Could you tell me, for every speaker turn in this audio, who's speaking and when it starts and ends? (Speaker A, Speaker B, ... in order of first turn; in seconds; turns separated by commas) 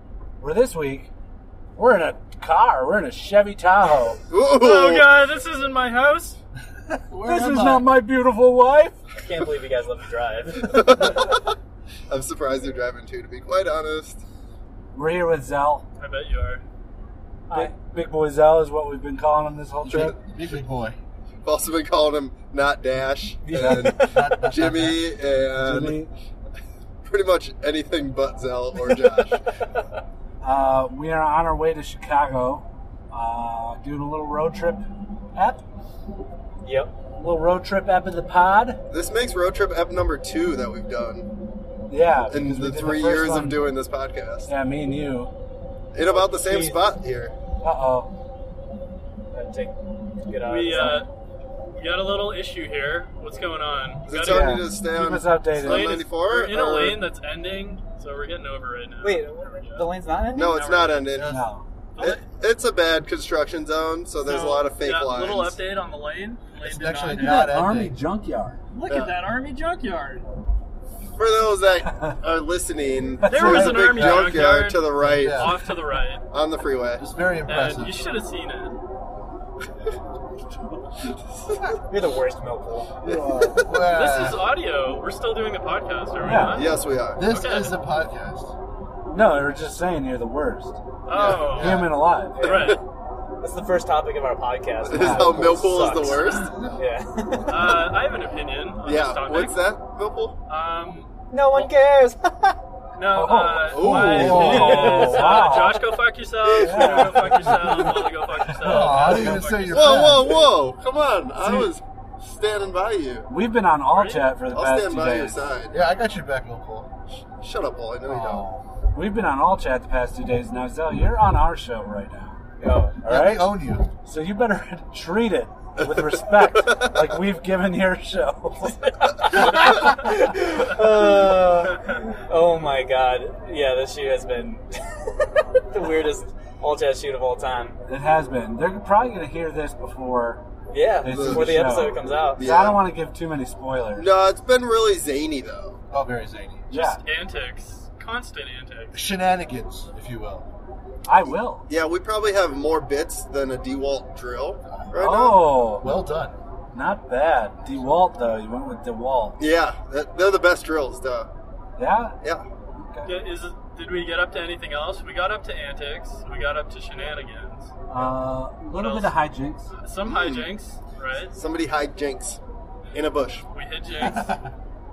Speaker A: 0.4-1.1, Speaker A: 1.8-4.2, Speaker B: 4.3-5.2, Speaker C: 4.5-6.4, Speaker D: 6.9-7.9, Speaker A: 7.2-9.0, Speaker E: 9.2-10.7, Speaker B: 10.6-11.4, Speaker B: 12.1-14.2, Speaker A: 14.9-15.8, Speaker C: 16.0-16.6, Speaker A: 17.5-20.1, Speaker D: 19.8-21.0, Speaker B: 21.4-26.0, Speaker E: 23.4-24.4, Speaker A: 23.5-23.9, Speaker D: 24.0-25.0, Speaker A: 25.6-26.1, Speaker B: 27.0-29.5, Speaker A: 30.4-35.6, Speaker E: 36.6-36.9, Speaker A: 37.1-38.8, Speaker B: 38.9-41.3, Speaker A: 41.9-43.7, Speaker B: 42.3-44.5, Speaker A: 44.5-45.3, Speaker B: 45.9-47.3, Speaker E: 46.0-46.9, Speaker A: 47.6-48.1, Speaker E: 49.3-51.1, Speaker C: 50.4-51.1, Speaker C: 51.8-54.7, Speaker B: 54.1-57.0, Speaker A: 54.2-56.0, Speaker C: 55.5-59.9, Speaker E: 59.0-60.9, Speaker B: 60.3-61.4, Speaker C: 60.5-61.0, Speaker D: 61.1-61.5, Speaker A: 61.2-61.6, Speaker C: 62.0-62.2, Speaker B: 62.0-65.6, Speaker C: 64.2-67.6, Speaker D: 66.6-68.0, Speaker A: 67.1-68.6, Speaker C: 68.7-70.2, Speaker B: 68.9-69.2, Speaker B: 71.2-75.6, Speaker C: 73.2-76.2, Speaker D: 73.3-75.6, Speaker B: 76.3-77.0, Speaker D: 77.0-78.0, Speaker C: 77.5-78.8, Speaker E: 81.9-82.9, Speaker A: 83.0-83.6, Speaker D: 83.1-84.5, Speaker B: 83.3-83.8, Speaker C: 83.8-87.8, Speaker A: 86.2-86.6, Speaker B: 86.5-87.2, Speaker D: 87.1-88.5, Speaker A: 89.1-90.8, Speaker C: 91.1-91.9, Speaker D: 91.1-92.0, Speaker A: 91.5-92.5, Speaker E: 92.3-92.8, Speaker C: 92.4-92.8, Speaker B: 92.4-92.8, Speaker E: 93.4-97.9, Speaker B: 94.8-96.6, Speaker A: 94.9-95.4, Speaker C: 96.0-96.4, Speaker D: 96.3-96.8, Speaker C: 97.5-99.6, Speaker B: 98.8-100.4, Speaker C: 100.5-101.7, Speaker E: 101.3-102.5, Speaker C: 103.0-110.1, Speaker A: 103.1-105.8, Speaker B: 103.7-104.6, Speaker D: 103.8-105.1, Speaker E: 104.2-105.9, Speaker E: 106.5-107.8, Speaker A: 106.6-107.8, Speaker A: 108.4-109.5, Speaker D: 108.6-110.5, Speaker B: 109.7-113.3, Speaker A: 111.4-111.7, Speaker A: 113.3-115.5, Speaker C: 113.9-114.3, Speaker B: 114.5-115.8, Speaker D: 115.7-116.9, Speaker B: 117.4-118.5, Speaker D: 118.0-118.7, Speaker A: 118.9-122.4, Speaker E: 122.6-123.0, Speaker D: 123.0-123.9, Speaker A: 123.0-128.8, Speaker B: 126.0-127.0, Speaker E: 129.2-137.7, Speaker C: 131.7-132.0, Speaker A: 137.9-140.4, Speaker E: 140.7-142.4, Speaker A: 141.0-144.1, Speaker B: 141.0-141.7, Speaker B: 142.3-142.8, Speaker B: 143.9-145.8, Speaker D: 145.9-146.6, Speaker C: 146.7-149.0, Speaker A: 146.7-147.0, Speaker D: 148.9-150.5, Speaker A: 151.1-151.7, Speaker B: 151.7-155.5, Speaker D: 154.7-155.1, Speaker A: 155.0-155.9, Speaker D: 155.8-156.3, Speaker A: 156.7-159.4, Speaker B: 159.4-161.3, Speaker A: 161.8-162.2, Speaker A: 162.8-163.1, Speaker C: 163.1-167.7, Speaker A: 167.9-169.7, Speaker C: 168.7-169.1, Speaker C: 169.8-171.3, Speaker B: 170.0-170.5, Speaker B: 171.3-172.4, Speaker B: 172.9-173.4, Speaker C: 173.5-174.3, Speaker D: 173.9-174.5